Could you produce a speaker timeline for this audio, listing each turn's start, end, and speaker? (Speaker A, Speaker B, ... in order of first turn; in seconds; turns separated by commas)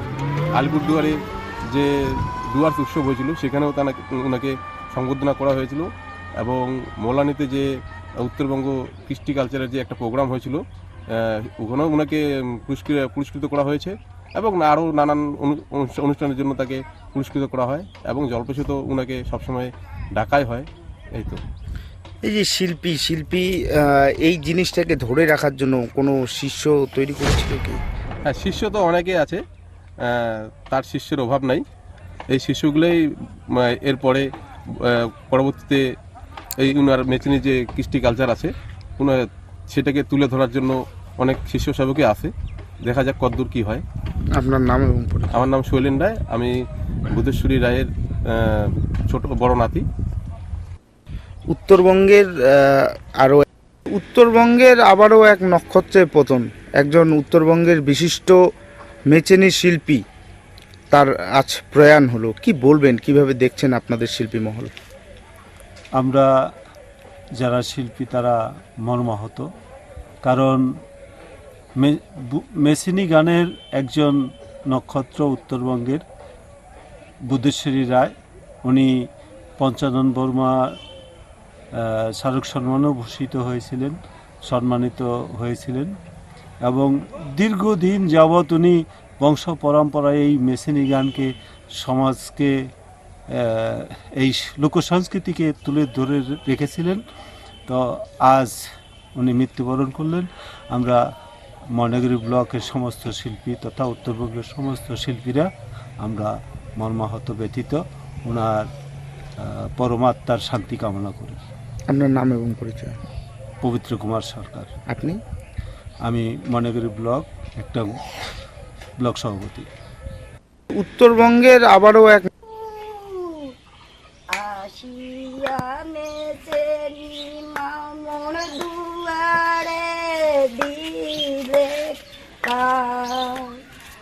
Speaker A: 0.6-21.4, Speaker B: 22.2-27.8, Speaker A: 28.2-29.4, Speaker A: 30.0-31.6, Speaker A: 32.3-33.0, Speaker A: 33.5-35.8, Speaker A: 36.6-42.3, Speaker A: 42.8-43.8, Speaker B: 44.3-45.5, Speaker A: 45.3-46.5, Speaker A: 47.1-49.8, Speaker B: 51.5-58.4, Speaker B: 59.1-60.0, Speaker B: 60.9-64.7, Speaker C: 66.0-66.3, Speaker C: 67.4-69.5, Speaker C: 70.2-70.6, Speaker C: 71.8-76.0, Speaker C: 77.2-78.9, Speaker C: 79.6-80.8, Speaker C: 81.7-85.9, Speaker C: 86.6-92.5, Speaker C: 93.3-97.0, Speaker C: 97.7-98.6, Speaker C: 99.1-101.0, Speaker C: 101.7-108.7, Speaker C: 109.4-111.4, Speaker B: 111.9-113.0, Speaker C: 113.6-114.7, Speaker B: 114.9-115.2, Speaker C: 116.1-117.9, Speaker C: 119.0-119.7, Speaker B: 120.7-122.3, Speaker D: 122.5-123.5, Speaker D: 124.3-133.6